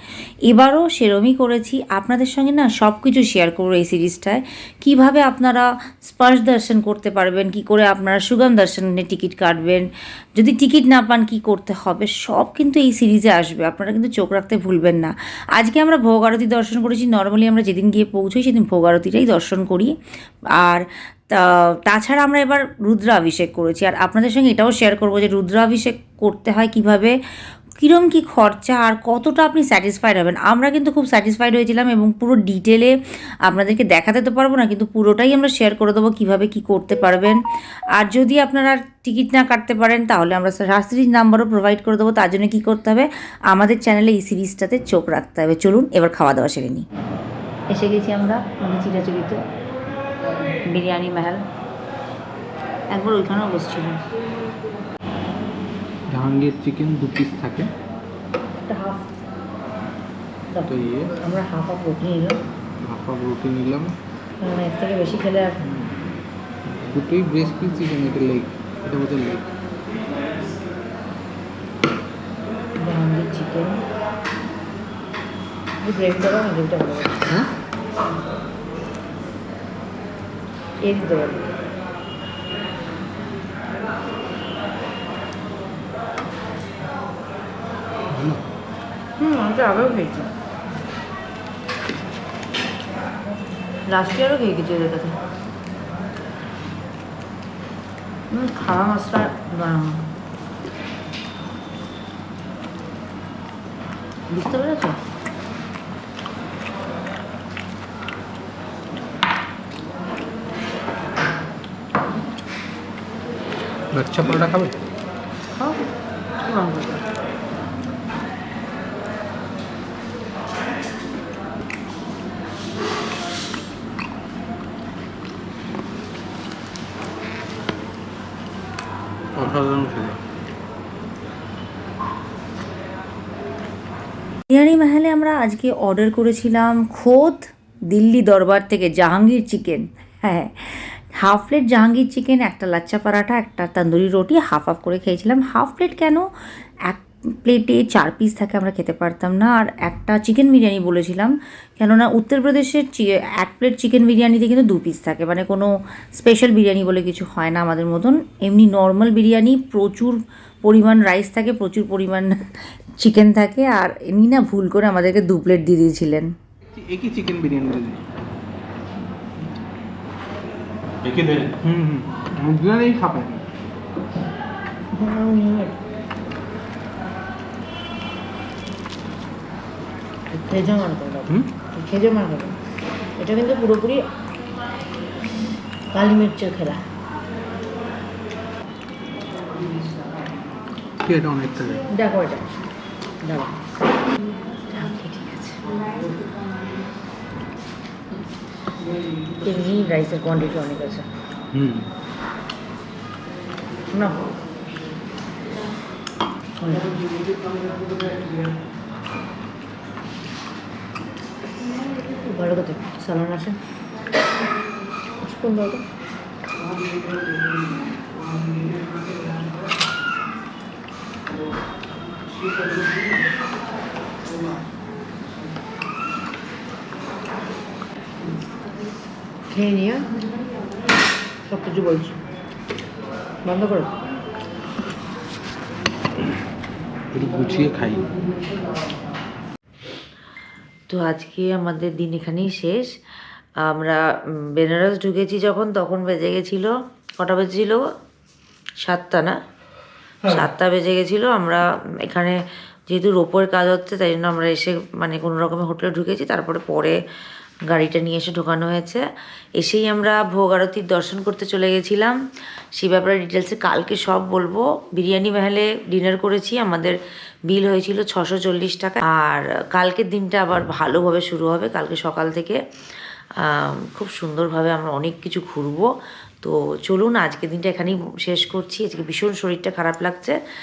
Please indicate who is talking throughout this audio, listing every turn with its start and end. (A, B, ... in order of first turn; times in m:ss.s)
0:00.5-0:19.9 A
0:20.6-0:27.2 A
0:27.8-0:32.9 A
0:33.5-0:37.4 A
0:38.0-0:46.8 A
0:47.7-0:49.4 A
0:50.7-0:51.4 A
0:52.9-0:54.0 A
0:56.1-0:57.7 B
0:58.7-0:59.1 A
1:00.5-1:02.4 A
1:00.7-1:01.2 B
1:02.8-1:04.0 B
1:04.4-1:05.6 A
1:05.6-1:06.0 B
1:06.7-1:09.4 B
1:12.8-1:13.8 A
1:15.8-1:17.5 A
1:20.8-1:21.4 A
1:29.2-1:30.3 A
1:33.9-1:35.2 A
1:38.3-1:40.1 A
1:44.3-1:45.0 A
1:53.9-1:54.8 B
1:55.5-1:55.8 A
1:56.4-1:57.1 A
2:09.4-2:10.2 B
2:14.5-2:26.3 A
2:26.9-2:42.3 A
2:43.0-2:46.3 A
2:46.7-2:48.1 B
2:51.1-2:53.4 B
2:55.0-2:55.8 A
3:00.3-3:02.6 A
3:03.2-3:04.1 A
3:05.9-3:06.8 A
3:11.0-3:11.9 B
3:11.9-3:12.5 A
3:13.2-3:13.6 A
3:14.7-3:16.1 A
3:19.4-3:21.1 A
3:21.5-3:21.9 B
3:23.9-3:24.3 A
3:26.6-3:27.0 A
3:32.0-3:33.6 A
3:35.2-3:35.8 A
3:49.5-3:50.2 A
3:51.5-3:52.2 A
3:53.5-3:53.9 A
3:57.1-3:58.1 B
4:00.9-4:02.9 A
4:03.6-4:07.8 A
4:08.8-4:09.4 A
4:10.2-4:17.0 A
4:17.7-4:19.0 A
4:19.6-4:22.2 A
4:22.8-4:27.0 A
4:27.5-4:32.6 A
4:33.4-4:35.9 A
4:36.4-4:40.4 A